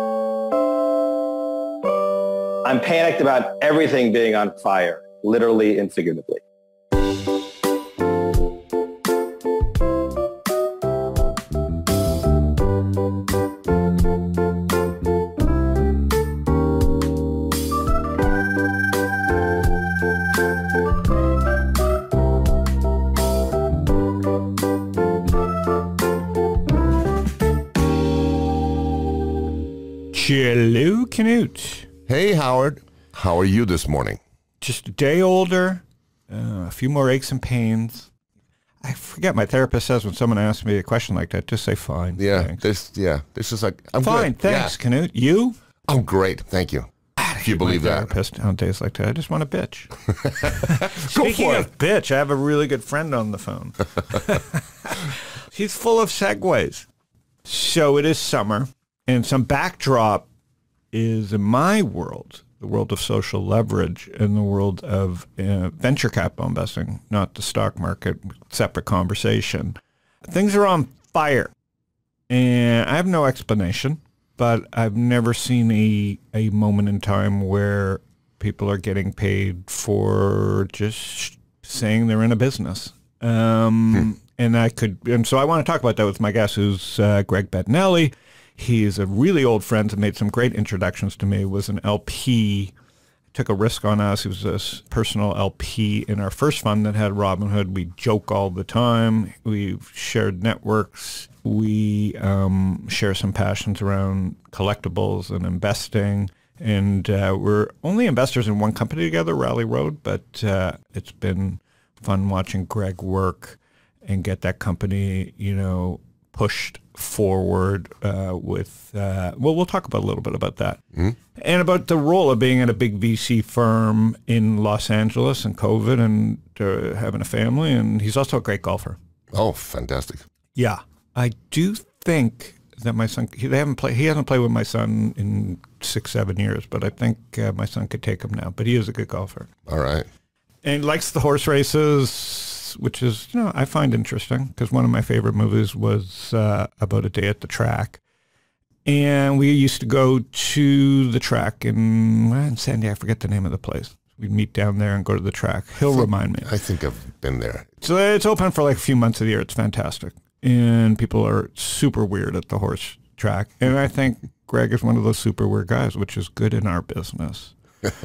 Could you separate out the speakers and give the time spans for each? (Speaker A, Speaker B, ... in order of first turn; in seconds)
Speaker A: 2.6-6.4
Speaker B: 30.1-31.9, 34.6-38.1, 38.8-42.6, 44.0-45.6, 47.2-56.9, 57.5-60.3, 60.9-71.5, 72.3-92.7, 93.3-120.8, 121.3-129.0, 130.6-139.5, 140.6-148.0, 148.8-156.5, 157.8-167.5
Speaker C: 32.1-34.2, 42.2-44.8, 45.9-46.9, 47.4-48.1, 50.1-51.7, 129.3-130.2, 139.7-140.1, 155.9-157.8